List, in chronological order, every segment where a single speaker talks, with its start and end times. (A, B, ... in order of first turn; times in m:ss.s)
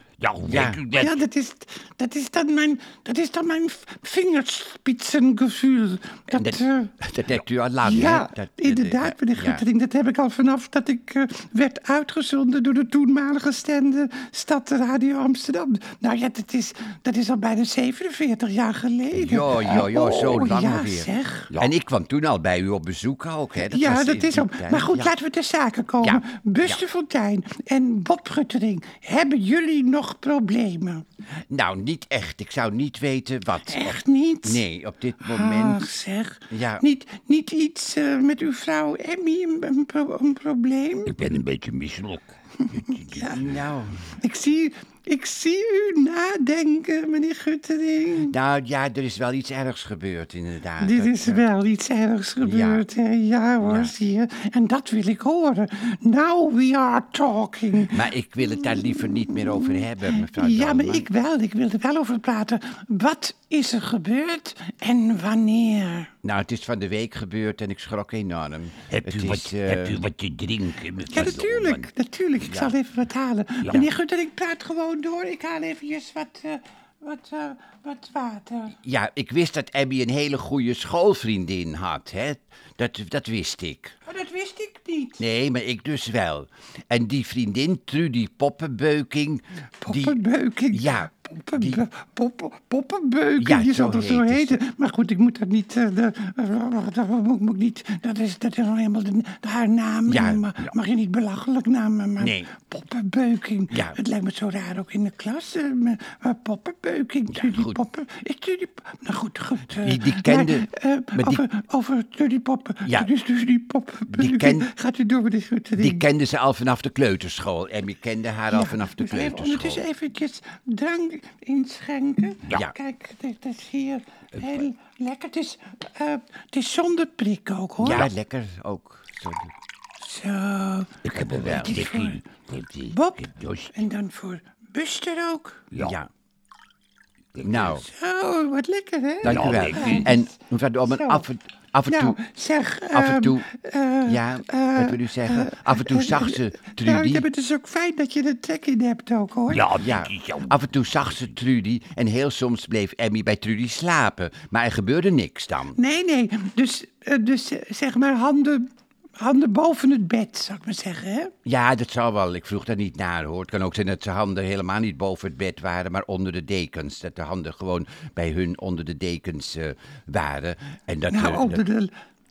0:00.2-0:01.2 A
0:00.4-0:00.8 B
0:00.9-0:07.0 C
0:06.3-0:09.6 B
0:07.8-0:21.5 C
0:19.1-0:25.1 B
0:23.6-0:31.0 C
0:26.0-0:26.8 B
0:31.5-0:35.8 B
0:33.7-0:34.6 C
0:35.2-0:41.1 C
0:36.5-0:36.8 B
0:41.0-0:43.4 A
0:42.8-0:43.4 C
0:43.2-0:44.0 B
0:44.2-0:48.3 C
0:48.3-0:51.4 B
0:50.8-1:06.1 C
0:52.4-0:52.8 B
0:53.6-0:53.9 B
0:57.9-1:01.0 B
1:06.2-1:10.0 B
1:08.9-1:11.9 A
1:11.0-1:18.8 C
1:12.4-1:12.7 B
1:18.8-1:24.0 B
1:24.1-1:25.2 C
1:25.2-1:31.8 B
1:29.8-1:56.0 C
1:33.4-1:34.6 B
1:40.1-1:40.6 B
1:42.2-1:42.5 B
1:43.7-1:44.0 B
1:47.3-1:47.8 B
1:49.7-1:51.4 B
1:54.1-1:54.7 B
1:55.8-1:59.8 B
1:58.5-2:08.1 C
2:04.4-2:04.6 A
2:07.8-2:09.5 B
2:10.0-2:12.2 C
2:11.0-2:13.7 A
2:11.4-2:11.7 B
2:12.9-2:15.6 C
2:15.7-2:16.0 A
2:15.8-2:16.1 B
2:17.3-2:17.7 A
2:17.4-2:17.8 B
2:17.8-2:20.3 C
2:19.2-2:22.2 B
2:19.2-2:20.0 A
2:20.8-2:21.2 C
2:21.9-2:29.7 C
2:22.9-2:23.5 B
2:24.0-2:27.2 B
2:29.5-2:30.6 A
2:29.8-2:35.8 B
2:35.7-2:41.3 C
2:41.4-2:51.7 B
2:51.1-2:51.9 C